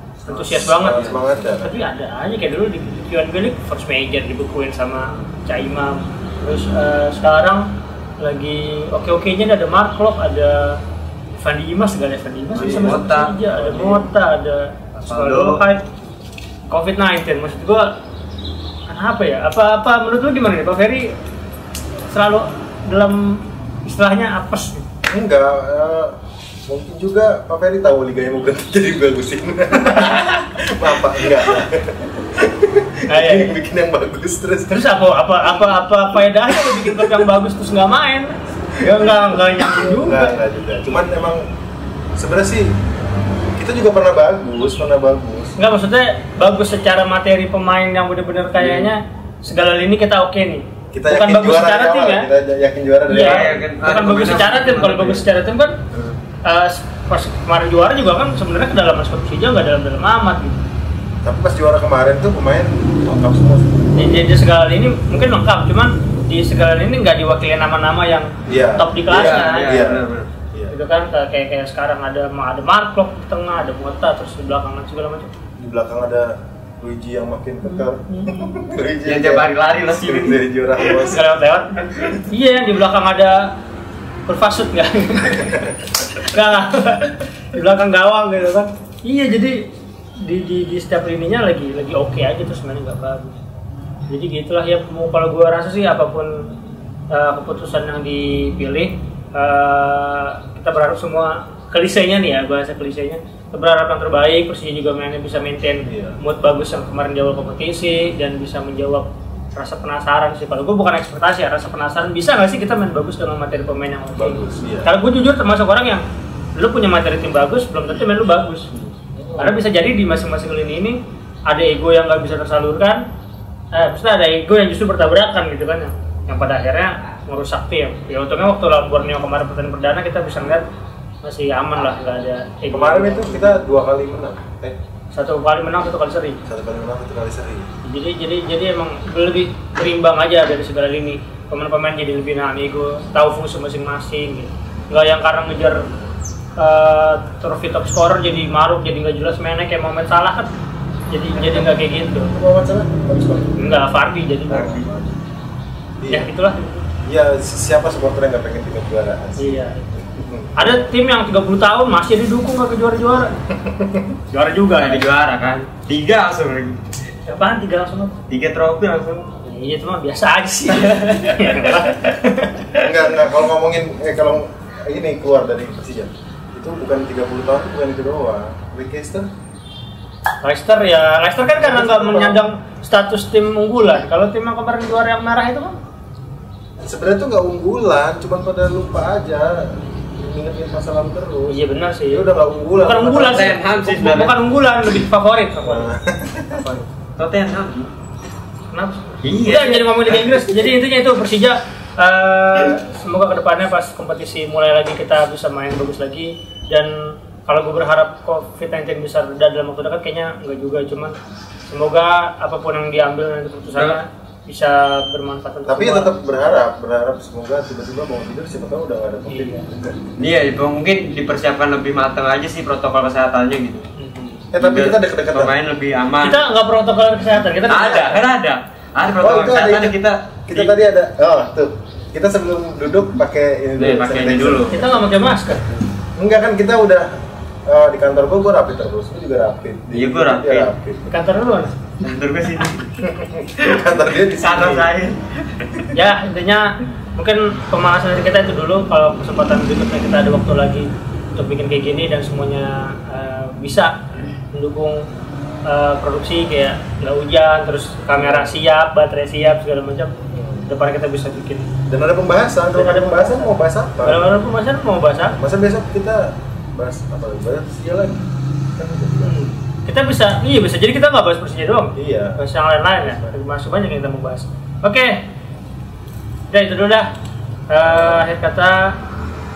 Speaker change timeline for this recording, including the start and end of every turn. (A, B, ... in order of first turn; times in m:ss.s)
0:00.3-0:10.8 A
0:00.3-0:01.8 B
0:00.9-0:01.2 C
0:11.4-0:15.8 A
0:12.5-0:13.2 B
0:12.6-0:14.0 C
0:15.0-0:15.6 C
0:16.7-0:17.9 A
0:18.9-0:21.2 A
0:22.1-0:24.8 A
0:25.1-0:26.2 B
0:26.7-0:35.0 B
0:29.9-0:30.5 A
0:33.1-0:33.5 A
0:34.7-0:40.4 A
0:36.6-0:37.3 B
0:38.8-0:41.4 B
0:42.2-0:42.8 B
0:43.6-0:45.6 B
0:45.6-0:52.3 A
0:48.6-0:48.9 C
0:50.9-0:53.6 B
0:53.1-0:55.8 A
0:53.1-0:55.2 C
0:55.9-0:56.2 C
0:56.4-1:00.6 A
1:01.2-1:04.3 B
1:03.9-1:09.8 A
1:08.5-1:10.7 B
1:09.1-1:10.3 C
1:10.7-1:15.3 A
1:15.6-1:21.3 B
1:17.6-1:18.5 A
1:19.0-1:21.1 C
1:21.1-1:23.6 A
1:21.8-1:22.1 C
1:24.3-1:33.4 A
1:34.1-1:36.5 A
1:37.1-1:56.0 A
1:45.9-1:46.2 B
1:54.2-1:54.9 B
1:56.6-1:58.7 A
1:59.2-1:59.6 B
1:59.4-2:03.0 A
2:03.7-2:10.7 A
2:11.2-2:13.6 A
2:12.7-2:14.8 B
2:15.1-2:16.4 A
2:16.4-2:17.7 B
2:17.8-2:25.9 A
2:26.6-2:30.5 A
2:31.1-2:32.3 A
2:31.4-2:33.7 B
2:33.6-2:34.8 A
2:34.5-2:35.2 B
2:34.5-2:34.8 C
2:36.0-2:36.3 B
2:36.1-2:36.9 A
2:37.0-2:40.9 B
2:39.4-2:39.9 A
2:40.6-2:43.3 A
2:43.4-2:44.2 B
2:44.3-2:45.1 A
2:44.8-2:46.8 C
2:47.3-2:48.2 A
2:48.3-2:49.3 C
2:49.4-2:52.8 A
2:50.8-2:51.9 C
2:52.8-2:59.3 B
3:00.4-3:05.8 A
3:01.4-3:02.4 B
3:06.9-3:13.6 B
3:11.5-3:15.9 A
3:13.1-3:14.4 C
3:15.6-3:16.6 B
3:16.5-3:16.9 A
3:17.2-3:17.9 C
3:18.7-3:31.2 A
3:19.2-3:20.2 C
3:31.7-3:36.1 A
3:35.7-3:40.1 B
3:39.3-3:39.7 A
3:40.2-3:43.9 C
3:44.0-3:44.5 A
3:44.5-3:45.6 B
3:44.6-3:46.4 C
3:46.2-3:48.2 A
3:47.7-3:50.8 C
3:49.2-3:50.0 B
3:50.5-3:55.1 B
3:53.8-3:54.8 C
3:54.7-3:55.9 A
3:56.2-3:57.1 B
3:57.7-4:01.1 B
3:59.9-4:00.7 C
4:01.1-4:01.7 A
4:02.0-4:02.9 C
4:03.0-4:04.9 B
4:03.6-4:05.9 C
4:05.9-4:15.0 A
4:15.7-4:20.1 A
4:18.2-4:18.6 B
4:20.3-4:20.7 B
4:20.7-4:21.7 A
4:21.9-4:24.4 B
4:22.7-4:23.5 A
4:24.0-4:25.4 A
4:25.3-4:29.4 B
4:29.2-4:35.3 A
4:32.0-4:32.4 B
4:33.0-4:33.4 B
4:36.5-4:37.1 A
4:37.7-4:39.0 A
4:37.8-4:38.2 B